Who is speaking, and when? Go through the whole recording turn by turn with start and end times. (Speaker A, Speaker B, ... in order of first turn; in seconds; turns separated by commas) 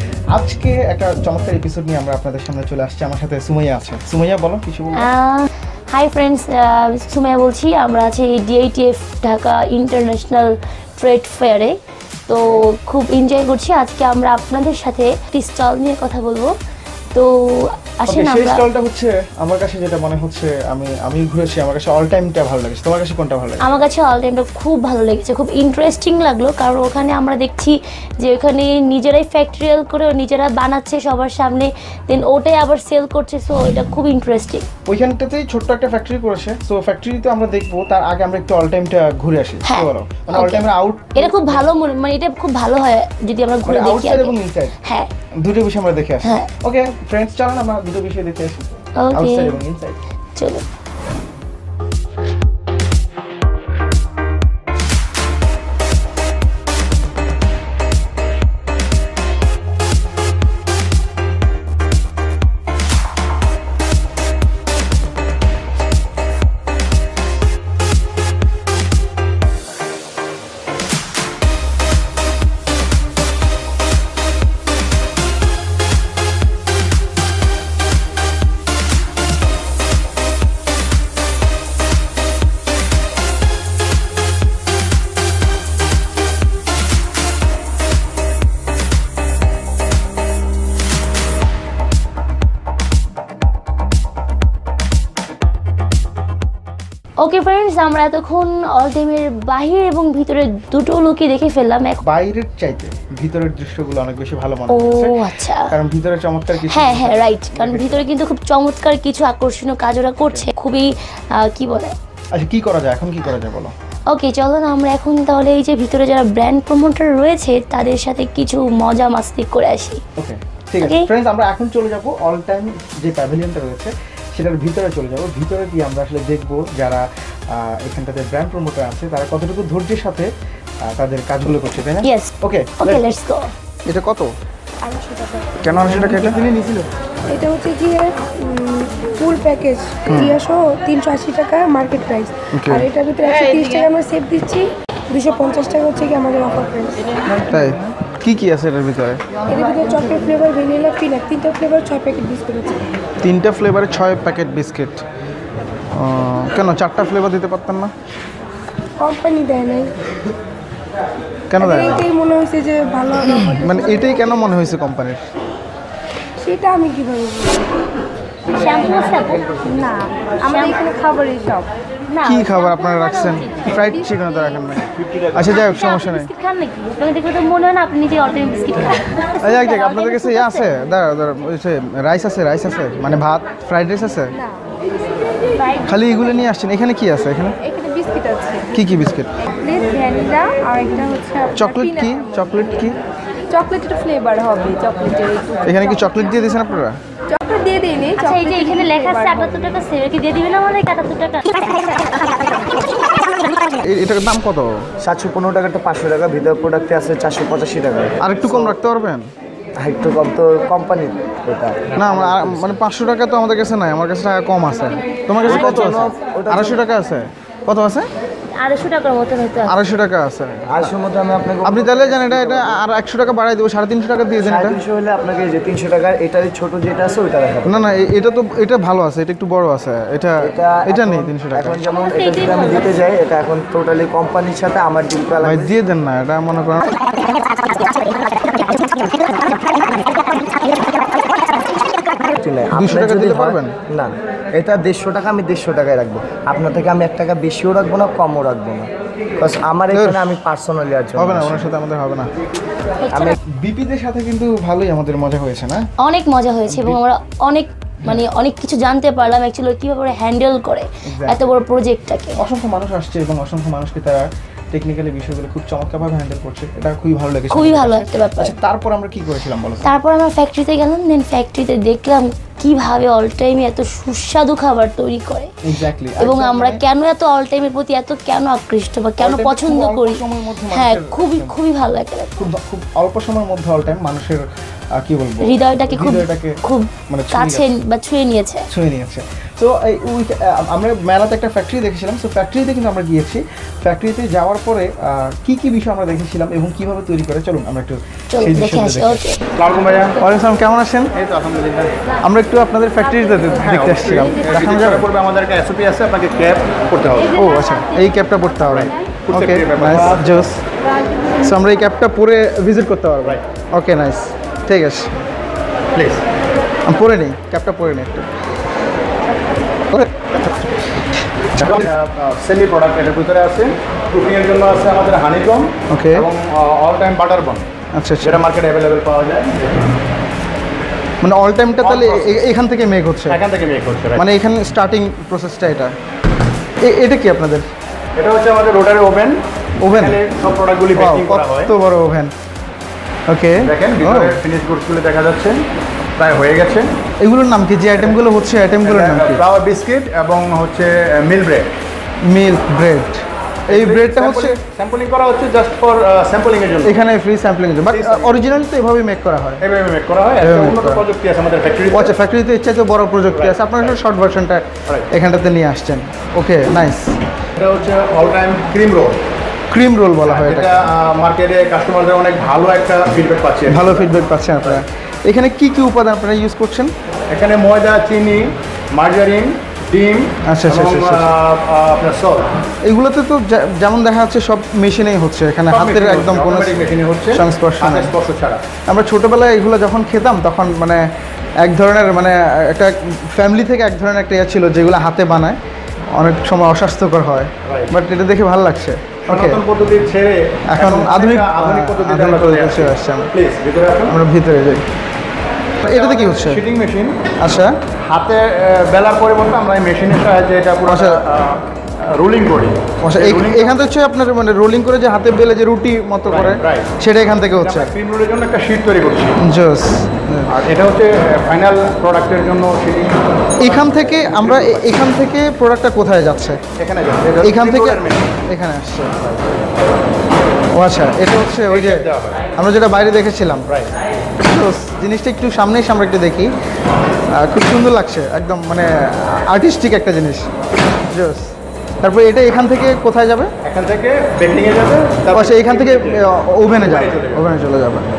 Speaker A: 0.3-5.1, Speaker B: 5.0-11.8, Speaker B: 12.3-16.5, Speaker B: 17.1-18.6, Speaker A: 18.1-23.7, Speaker B: 23.6-34.7, Speaker A: 34.9-41.7, Speaker B: 39.6-45.1, Speaker A: 43.6-44.8, Speaker A: 45.4-50.0, Speaker B: 46.2-46.5, Speaker B: 49.0-49.6, Speaker B: 50.4-50.6, Speaker B: 97.2-102.0, Speaker A: 102.0-105.2, Speaker B: 104.7-105.7, Speaker A: 105.7-108.1, Speaker B: 106.6-111.9, Speaker A: 112.3-113.7, Speaker B: 114.1-120.0, Speaker A: 120.2-130.3, Speaker B: 120.8-121.1, Speaker A: 130.9-133.1, Speaker B: 132.0-132.3, Speaker B: 132.8-133.5, Speaker A: 133.9-134.3, Speaker C: 134.8-135.5, Speaker A: 135.6-136.4, Speaker D: 135.9-136.9, Speaker C: 137.3-147.1, Speaker A: 140.1-140.4, Speaker A: 142.5-142.9, Speaker A: 147.4-149.2, Speaker C: 149.5-152.9, Speaker A: 153.2-155.1, Speaker A: 155.9-157.9, Speaker C: 159.0-159.9, Speaker A: 161.5-162.1, Speaker C: 161.6-164.4, Speaker A: 163.4-165.2, Speaker C: 166.4-167.8, Speaker B: 168.5-169.6, Speaker C: 169.7-171.7, Speaker B: 170.4-170.8, Speaker B: 172.1-174.0, Speaker A: 172.2-176.3, Speaker B: 175.5-180.4, Speaker A: 179.3-184.3, Speaker A: 185.8-187.6, Speaker C: 187.7-188.6, Speaker A: 188.7-189.3, Speaker C: 189.6-192.0, Speaker A: 191.5-193.0, Speaker C: 193.5-195.5, Speaker A: 195.6-197.0, Speaker C: 197.4-199.1, Speaker B: 198.2-202.5, Speaker A: 203.8-204.8, Speaker D: 205.0-208.8, Speaker A: 208.2-209.3, Speaker D: 209.8-212.8, Speaker A: 211.9-218.1, Speaker D: 215.4-216.8, Speaker B: 218.6-219.8, Speaker A: 219.7-221.0, Speaker D: 220.7-222.7, Speaker A: 221.6-224.8, Speaker D: 224.4-227.9, Speaker A: 227.6-231.8, Speaker D: 230.4-235.7, Speaker B: 231.9-233.0, Speaker A: 235.4-237.0, Speaker D: 237.2-240.8, Speaker D: 242.0-251.6, Speaker A: 242.7-243.8, Speaker A: 249.9-250.2, Speaker A: 251.2-252.3, Speaker D: 253.1-253.4, Speaker A: 253.5-255.9, Speaker B: 256.0-262.4, Speaker A: 256.7-257.0, Speaker A: 261.1-261.5, Speaker A: 262.4-269.9, Speaker B: 267.5-268.6, Speaker B: 269.8-275.5, Speaker A: 275.6-276.8, Speaker B: 276.2-282.4, Speaker A: 279.2-281.6, Speaker A: 282.4-287.8, Speaker B: 285.4-288.7, Speaker A: 288.7-299.2, Speaker B: 298.3-299.4, Speaker E: 299.6-300.2, Speaker A: 300.2-301.1, Speaker E: 301.1-301.9, Speaker A: 302.2-305.1, Speaker E: 303.6-307.4, Speaker A: 307.3-310.6, Speaker E: 308.7-310.4, Speaker A: 311.4-315.1, Speaker E: 315.9-316.2, Speaker A: 316.9-318.3, Speaker A: 319.9-320.7, Speaker A: 321.6-321.9, Speaker E: 321.6-327.7, Speaker A: 325.9-326.3, Speaker A: 327.9-328.4, Speaker E: 328.2-329.9, Speaker A: 331.2-333.4, Speaker E: 331.8-332.4, Speaker E: 333.3-334.3, Speaker A: 334.1-335.9, Speaker A: 336.8-337.7, Speaker E: 338.2-341.7, Speaker A: 339.8-340.2, Speaker A: 340.9-342.3, Speaker A: 343.3-344.4, Speaker E: 343.6-345.6, Speaker E: 346.2-346.9, Speaker A: 347.2-349.4, Speaker E: 348.8-351.7, Speaker A: 352.2-354.6, Speaker E: 353.7-357.0, Speaker A: 356.8-359.6, Speaker E: 357.9-358.4, Speaker E: 359.6-362.2, Speaker A: 360.4-361.0, Speaker A: 361.9-367.2, Speaker E: 363.3-364.0, Speaker E: 367.6-369.2, Speaker A: 369.7-370.8, Speaker E: 370.2-374.8, Speaker A: 373.7-376.9, Speaker E: 377.3-382.5, Speaker A: 380.5-381.3, Speaker A: 382.9-386.8, Speaker E: 385.7-388.6, Speaker A: 387.3-388.1, Speaker A: 388.9-391.0, Speaker A: 391.6-395.6, Speaker A: 396.2-399.6, Speaker E: 397.6-397.9, Speaker E: 399.3-404.2, Speaker A: 400.7-403.3, Speaker A: 404.1-404.9, Speaker E: 405.8-407.2, Speaker A: 405.8-406.6, Speaker A: 407.4-407.7, Speaker E: 408.1-413.8, Speaker A: 410.9-411.2, Speaker A: 413.0-417.9, Speaker E: 416.3-416.9, Speaker E: 417.6-419.4, Speaker A: 419.4-420.5, Speaker E: 420.5-425.0, Speaker A: 423.6-426.6, Speaker E: 426.8-428.4, Speaker A: 427.4-429.2, Speaker A: 430.7-432.0, Speaker E: 431.7-432.5, Speaker A: 432.6-433.7, Speaker A: 434.4-436.5, Speaker A: 437.3-440.5, Speaker A: 441.1-443.5, Speaker E: 443.6-447.5, Speaker A: 445.3-448.1